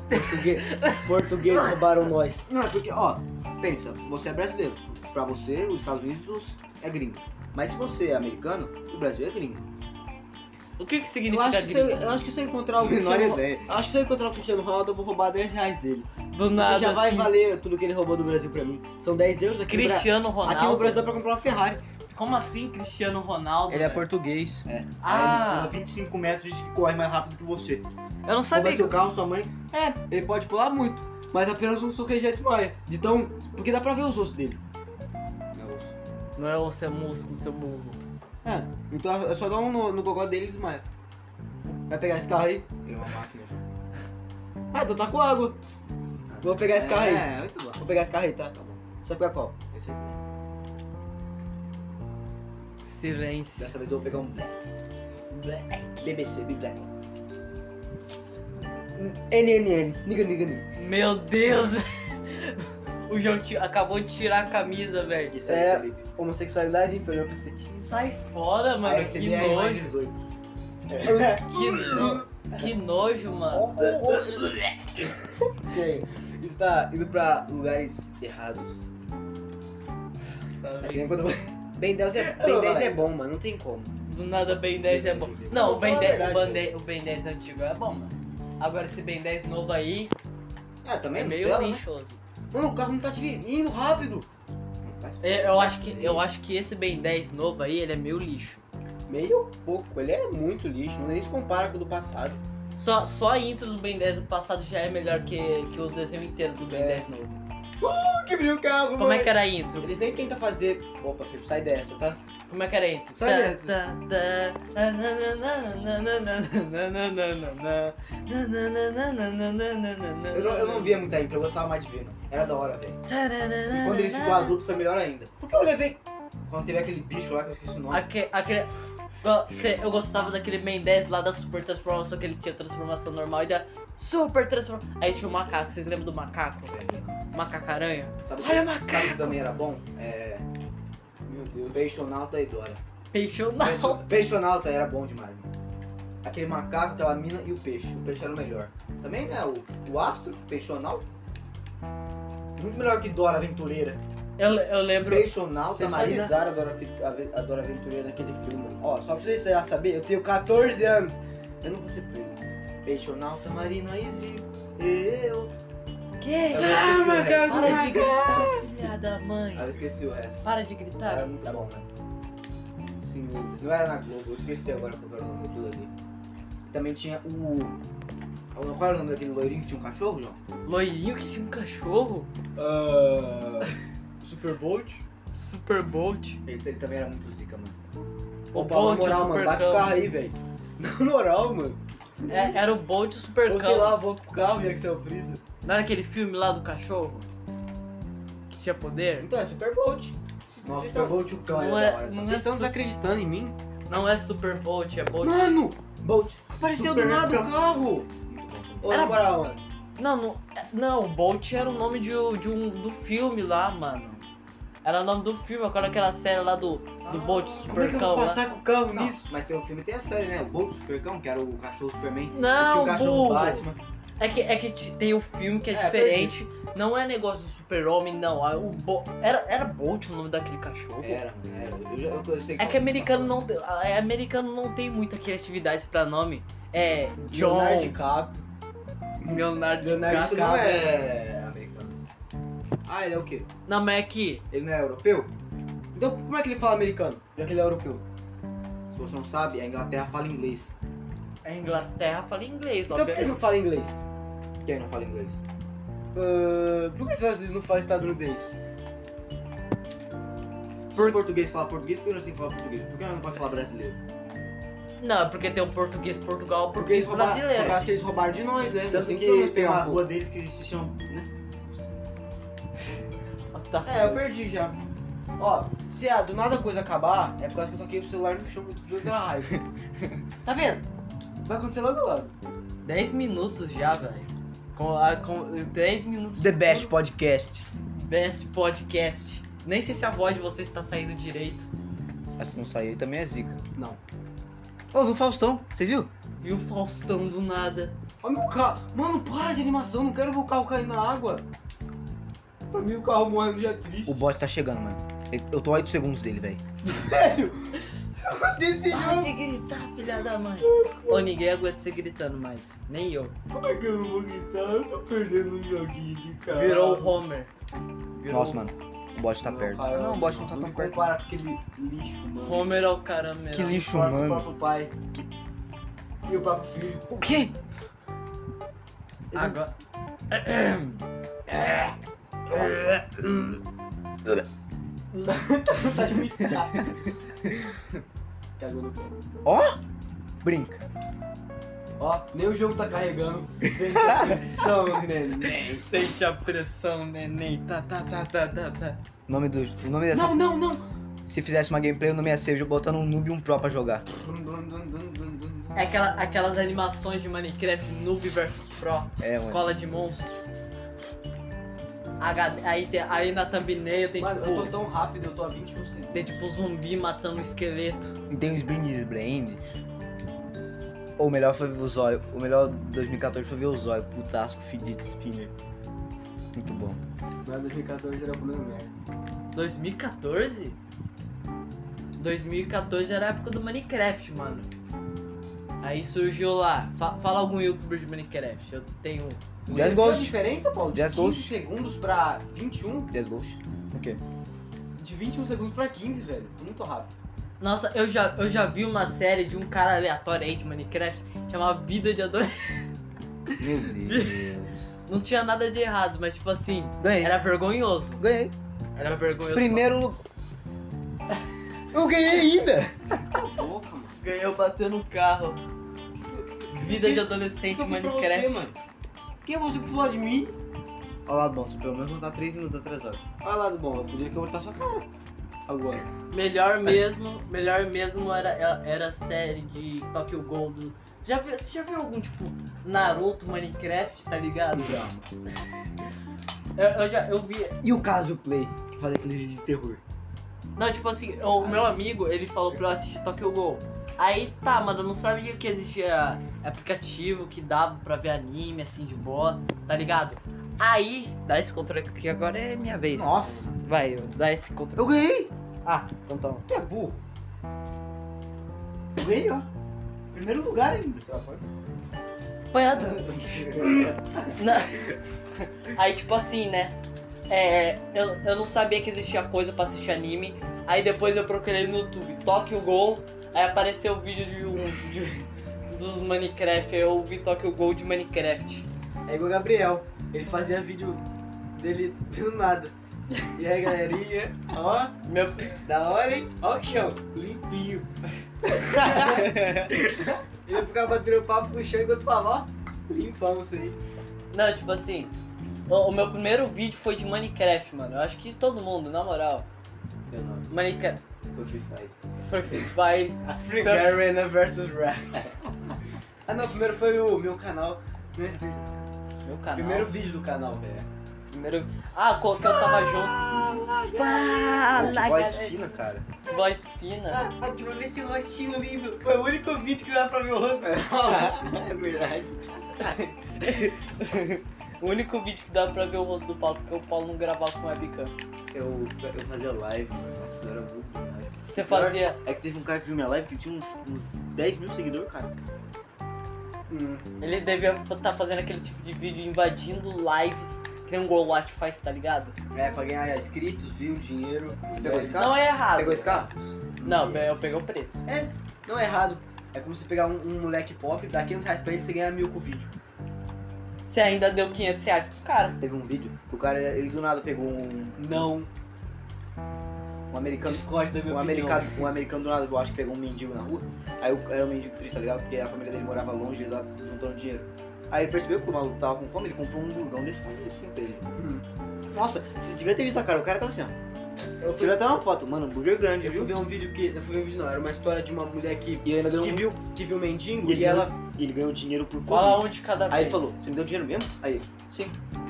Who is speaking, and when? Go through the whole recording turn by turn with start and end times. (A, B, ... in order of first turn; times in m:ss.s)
0:00.1-0:02.5 A
0:00.6-0:01.1 B
0:02.5-0:09.6 C
0:10.8-0:12.1 B
0:11.3-0:21.8 A
0:12.8-0:13.8 C
0:16.3-0:17.3 B
0:19.7-0:21.0 B
0:22.1-0:24.0 B
0:23.7-0:24.6 A
0:24.6-0:27.8 C
0:25.0-0:25.8 B
0:28.3-0:29.0 B
0:28.5-0:30.0 C
0:30.1-0:34.6 A
0:35.6-0:35.9 A
0:36.4-0:38.0 B
0:38.4-0:40.9 A
0:41.9-0:42.7 A
0:42.8-0:43.6 C
0:44.7-0:45.6 A
0:46.3-0:47.8 C
0:46.4-0:49.6 A
0:49.7-0:50.2 C
0:52.8-0:53.7 B
0:53.6-0:54.6 C
0:55.3-0:56.1 B
0:56.0-0:56.8 A
0:59.0-1:00.6 A
1:00.8-1:05.4 B
1:05.3-1:06.0 C
1:05.5-1:07.8 A
1:07.8-1:10.0 B
1:08.8-1:10.2 C
1:10.9-1:11.3 C
1:11.0-1:12.2 A
1:11.5-1:13.8 B
1:11.8-1:12.6 C
1:13.5-1:14.6 C
1:15.6-1:18.8 A
1:20.3-1:21.2 B
1:20.9-1:21.4 C
1:20.9-1:23.9 A
1:22.2-1:23.1 C
1:24.1-1:30.1 B
1:24.9-1:26.6 C
1:25.5-1:26.4 A
1:30.8-1:31.8 C
1:31.1-1:32.2 B
1:32.5-1:34.3 A
1:34.8-1:36.2 C
1:35.2-1:38.6 B
1:39.1-1:42.4 A
1:42.8-1:47.4 B
1:46.7-1:47.0 A
1:47.8-1:52.2 A
1:49.0-1:49.9 B
1:52.5-2:01.0 B
1:53.1-1:53.8 A
2:00.3-2:03.0 C
2:03.1-2:04.6 B
2:03.7-2:05.3 C
2:05.4-2:06.0 A
2:06.5-2:08.1 C
2:07.9-2:08.7 B
2:09.2-2:16.8 B
2:16.7-2:17.2 C
2:17.3-2:19.4 B
2:18.3-2:20.5 C
2:21.3-2:21.9 A
2:21.7-2:22.8 C
2:23.1-2:24.3 B
2:23.6-2:25.5 C
2:26.2-2:31.1 C
2:32.6-2:34.0 C
2:34.4-2:35.3 B
2:35.0-2:36.5 C
2:35.7-2:42.4 A
2:42.8-2:44.8 C
2:44.8-2:45.5 A
2:46.2-2:49.8 B
2:46.5-2:48.6 C
2:46.5-2:48.6 A
2:49.5-2:50.5 C
2:50.4-2:51.3 B
2:51.1-2:51.9 C
2:53.0-2:54.4 A
2:53.6-2:55.9 C
2:56.7-2:57.8 C
2:58.5-3:00.4 C
3:00.7-3:02.3 B
3:02.6-3:05.0 A
3:05.3-3:06.4 B
3:06.5-3:07.8 C
3:08.5-3:10.0 B
3:08.5-3:12.6 A
3:12.3-3:14.0 B
3:13.4-3:15.4 A
3:15.6-3:17.3 B
3:18.5-3:19.3 B
3:19.2-3:21.5 A
3:20.6-3:22.2 C
3:21.4-3:22.7 B
3:22.2-3:23.6 A
3:23.9-3:25.6 B
3:25.2-3:28.0 A
3:26.6-3:29.0 C
3:28.8-3:29.6 A
3:28.9-3:29.3 B
3:30.0-3:34.2 B
3:34.8-3:38.4 B
3:37.0-3:38.1 C
3:37.7-3:39.2 A
3:38.9-3:43.8 C
3:42.3-3:43.6 B
3:44.2-3:51.2 B
3:45.7-3:46.4 A
3:51.0-3:53.4 C
3:52.6-3:58.0 B
3:57.2-3:58.4 A
3:59.2-4:00.8 A
3:59.3-4:00.7 B
4:00.0-4:02.0 C
4:02.9-4:03.5 A
4:03.7-4:04.4 B
4:04.5-4:05.3 C
4:06.0-4:08.0 A
4:08.9-4:10.7 C
4:11.4-4:13.3 B
4:12.9-4:14.0 A
4:14.6-4:15.4 C
4:16.1-4:18.6 A
4:20.9-4:24.0 C
4:25.0-4:27.8 B
4:26.8-4:30.0 A
4:28.9-4:31.3 C
4:33.5-4:34.2 B
4:33.8-4:34.8 A
4:35.4-4:39.6 A
4:40.4-4:40.8 A
4:41.4-4:42.3 A
4:42.8-4:46.9 B
4:46.4-4:47.7 C
4:48.0-4:51.7 B
4:52.4-4:53.6 C
4:54.9-4:56.1 C
4:56.4-4:57.9 B
4:58.2-5:01.4 A
5:02.7-5:04.2 A
5:04.1-5:06.6 C
5:06.8-5:09.3 A
5:08.9-5:13.4 B
5:10.6-5:11.3 A
5:13.5-5:17.2 A
5:16.5-5:17.5 B
5:18.2-5:18.6 B
5:18.3-5:21.1 C
5:19.4-5:22.7 A
5:22.4-5:23.9 B
5:23.5-5:24.5 C
5:23.6-5:25.1 A
5:26.3-5:27.1 A
5:27.1-5:27.5 C
5:29.3-5:29.7 B
5:30.3-5:31.0 B
5:31.5-5:31.9 A
5:32.5-5:33.6 A
5:35.1-5:37.0 A
5:36.6-5:36.9 C
5:38.6-5:39.2 A
5:39.4-5:39.8 C
5:40.4-5:40.8 C
5:42.0-5:45.9 A
5:43.7-5:44.8 C
5:45.8-5:49.0 B
5:49.3-5:50.4 C
5:50.1-5:50.8 A
5:51.3-5:54.1 C
5:54.2-5:55.9 A
5:55.8-6:00.4 B
5:59.2-5:59.7 C
6:02.2-6:04.7 B
6:04.2-6:06.4 A
6:06.1-6:08.2 B
6:08.3-6:09.6 C
6:11.2-6:15.5 C
6:16.5-6:17.0 C
6:17.4-6:18.9 A
6:19.5-6:20.8 B
6:22.2-6:24.7 B
6:25.8-6:29.4 B
6:29.7-6:33.1 A
6:29.7-6:30.4 C
6:30.9-6:31.5 C
6:33.1-6:34.2 C
6:35.0-6:37.1 A
6:37.6-6:42.9 B
6:43.6-6:45.0 C
6:43.6-6:44.5 B
6:45.1-6:48.2 B
6:47.0-6:47.4 C
6:48.2-6:48.5 C
6:49.0-6:49.9 B
6:49.5-6:50.2 C
6:51.9-6:52.7 C
6:51.9-6:52.9 A
6:53.4-6:54.2 C
6:54.2-6:55.6 B
6:56.2-6:57.2 A
6:56.7-6:58.7 B
6:56.9-6:58.8 C
6:59.4-7:00.5 A
7:01.3-7:03.4 C
7:03.4-7:05.0 A
7:05.7-7:06.1 A
7:06.3-7:15.0 B
7:14.8-7:15.3 C
7:16.8-7:17.8 B
7:17.8-7:20.0 A
7:20.8-7:35.2 B
7:33.1-7:33.7 C
7:35.0-7:35.5 C
7:35.8-7:36.6 B
7:36.7-7:37.2 A
7:39.2-7:39.7 C
7:40.3-7:41.6 C
7:42.7-7:45.0 B
7:43.7-7:44.5 C
7:45.9-7:47.0 B
7:47.5-7:58.9 B
7:59.3-8:01.2 A
8:01.8-8:02.9 A
8:03.5-8:05.1 A
8:05.2-8:06.4 B
8:05.9-8:08.1 A
8:08.8-8:14.0 A
8:09.0-8:09.9 B
8:14.5-8:15.3 B
8:15.9-8:19.7 B
8:20.3-8:20.7 C
8:20.7-8:21.2 B
8:21.5-8:22.9 C
8:22.5-8:24.2 B
8:23.6-8:25.4 A
8:26.5-8:28.9 A
8:29.5-8:30.1 B
8:29.8-8:30.8 A
8:30.8-8:31.1 C
8:31.5-8:35.8 B
8:33.4-8:34.6 A
8:34.9-8:36.3 C
8:36.5-8:37.4 B
8:37.3-8:41.6 A
8:40.8-8:43.9 C
8:43.6-8:48.3 B
8:48.7-8:55.5 C
8:51.7-8:52.4 B
8:56.9-8:57.2 A
8:57.4-9:02.6 B
9:02.7-9:05.4 A
9:04.9-9:06.5 C
9:05.3-9:06.5 B
9:07.0-9:07.4 C
9:07.0-9:08.2 B
9:07.1-9:07.4 A
9:08.3-9:12.9 A
9:14.1-9:15.8 B
9:15.8-9:18.5 C
9:18.2-9:18.7 A
9:20.3-9:31.4 C
9:20.6-9:22.1 A
9:31.4-9:31.6 A
9:32.1-9:34.0 C
9:34.6-9:35.2 A
9:34.8-9:36.6 C
9:36.2-9:41.2 A
9:39.0-9:39.8 C
9:40.6-9:45.2 C
9:42.3-9:43.5 B